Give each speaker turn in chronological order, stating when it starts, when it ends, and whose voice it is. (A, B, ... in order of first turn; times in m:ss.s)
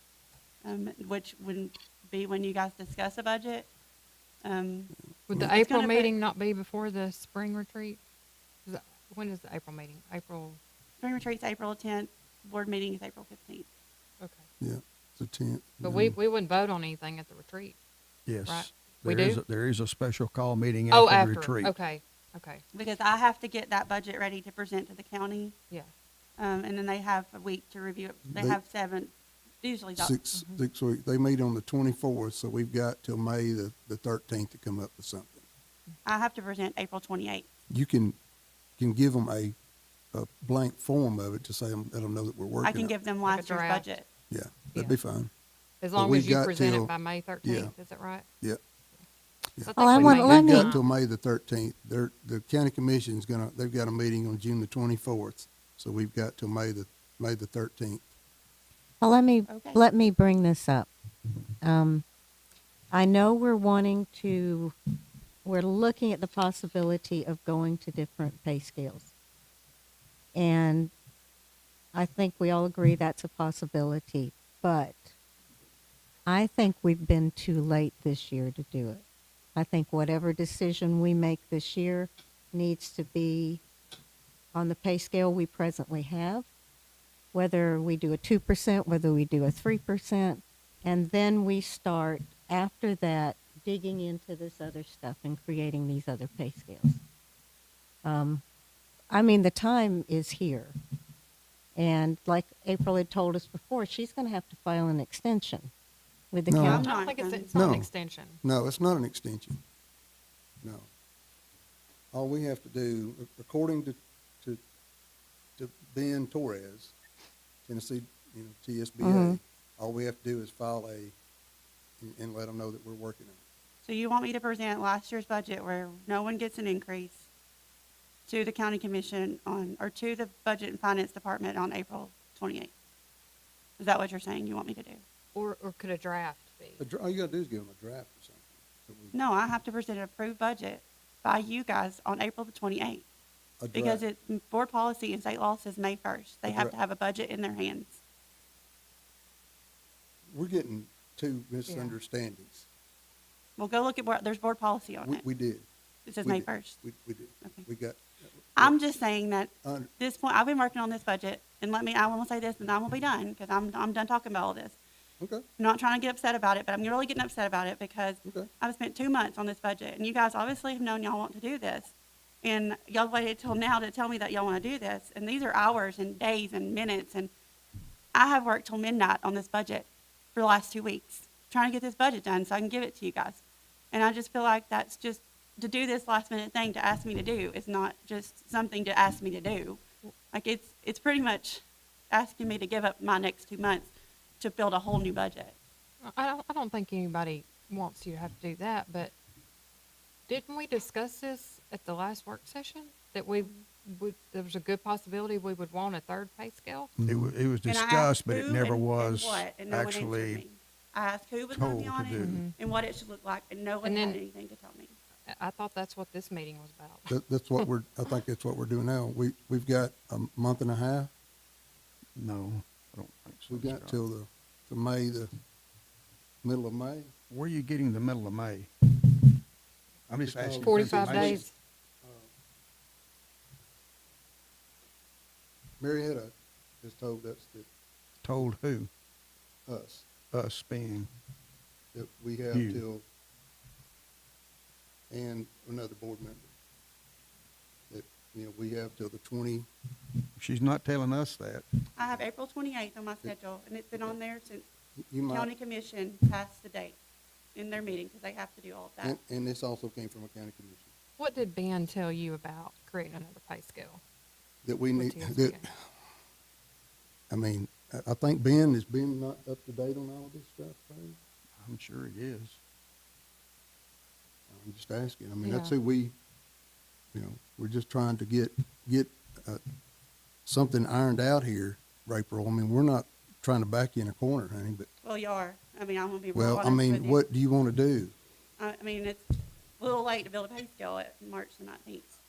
0:00.6-0:03.7 A
0:04.4-0:06.1 A
0:05.3-0:08.0 B
0:08.6-0:10.6 B
0:11.0-0:13.7 A
0:14.6-0:16.2 C
0:15.8-0:17.8 B
0:18.3-0:21.7 D
0:18.4-0:19.4 B
0:20.9-0:22.6 B
0:22.7-0:25.5 A
0:26.4-0:30.2 A
0:28.3-0:28.6 C
0:30.0-0:35.4 C
0:36.0-0:37.5 A
0:37.7-0:38.2 C
0:38.8-0:39.6 C
0:40.1-0:42.9 C
0:42.6-0:44.0 A
0:43.2-0:43.9 B
0:44.3-0:45.3 C
0:45.8-0:48.2 B
0:45.9-0:47.7 C
0:49.6-0:58.0 C
0:49.6-0:50.8 B
0:49.8-0:50.8 E
0:59.0-1:00.9 E
0:59.5-0:59.8 A
1:01.6-1:02.0 E
1:02.9-1:04.7 E
1:05.4-1:09.1 E
1:10.3-1:10.9 E
1:11.9-1:15.1 E
1:16.3-1:19.0 E
1:19.5-1:23.6 E
1:24.5-1:26.5 E
1:27.3-1:37.0 E
1:38.0-1:38.4 E
1:39.1-1:40.7 E
1:41.8-1:45.7 E
1:46.3-1:46.9 E
1:46.5-1:46.8 C
1:46.6-1:48.4 B
1:46.6-1:47.5 A
1:47.5-1:47.9 C
1:48.4-1:49.6 C
1:50.6-1:50.9 C
1:52.1-1:54.6 C
1:55.6-1:56.9 C
1:57.6-2:01.1 C
1:59.0-1:59.4 E
2:02.0-2:03.4 C
2:03.8-2:07.3 A
2:08.3-2:12.7 A
2:13.8-2:15.0 A
2:15.3-2:16.8 B
2:16.8-2:19.1 C
2:19.1-2:23.0 A
2:23.6-2:24.0 C
2:23.7-2:28.0 A
2:26.4-2:26.7 C
2:30.3-2:32.7 C
2:31.7-2:32.0 B
2:33.6-2:35.2 A
2:35.0-2:35.6 C
2:36.1-2:36.8 A
2:36.2-2:38.8 C
2:38.6-2:44.8 A
2:39.6-2:39.9 C
2:45.6-2:57.3 A
2:58.1-3:15.6 A
3:16.0-3:19.1 B
3:20.3-3:26.9 B
3:27.0-3:27.3 C
3:27.0-3:30.4 D
3:27.6-3:34.9 A
3:31.5-3:32.4 D
3:32.2-3:32.5 B
3:33.8-3:34.2 B
3:35.3-3:37.1 B
3:37.1-3:41.1 C
3:42.2-3:44.0 D
3:43.5-3:45.3 C
3:46.4-3:47.1 C
3:47.3-3:49.3 D
3:50.1-3:51.5 D
3:50.2-3:51.5 C
3:50.6-3:51.5 B
3:52.0-3:52.3 C
3:55.8-3:57.7 C
3:58.2-3:58.9 D
3:59.7-4:00.1 C
4:00.3-4:01.1 D
4:01.9-4:03.0 C
4:02.5-4:02.8 D
4:05.1-4:06.5 C
4:07.9-4:09.7 C
4:10.4-4:11.6 D
4:12.0-4:14.6 A
4:15.0-4:15.5 C
4:15.2-4:17.0 A
4:17.5-4:19.2 A
4:19.0-4:20.9 C
4:21.2-4:24.0 B
4:24.6-4:25.7 C
4:24.9-4:25.6 B
4:27.3-4:31.2 C
4:31.6-4:32.6 D
4:34.5-4:36.1 C
4:35.4-4:35.7 B
4:37.1-4:39.6 C
4:40.4-4:44.9 C
4:45.0-4:47.2 A
4:46.3-4:48.1 C
4:48.6-4:49.2 A
4:49.8-4:52.1 A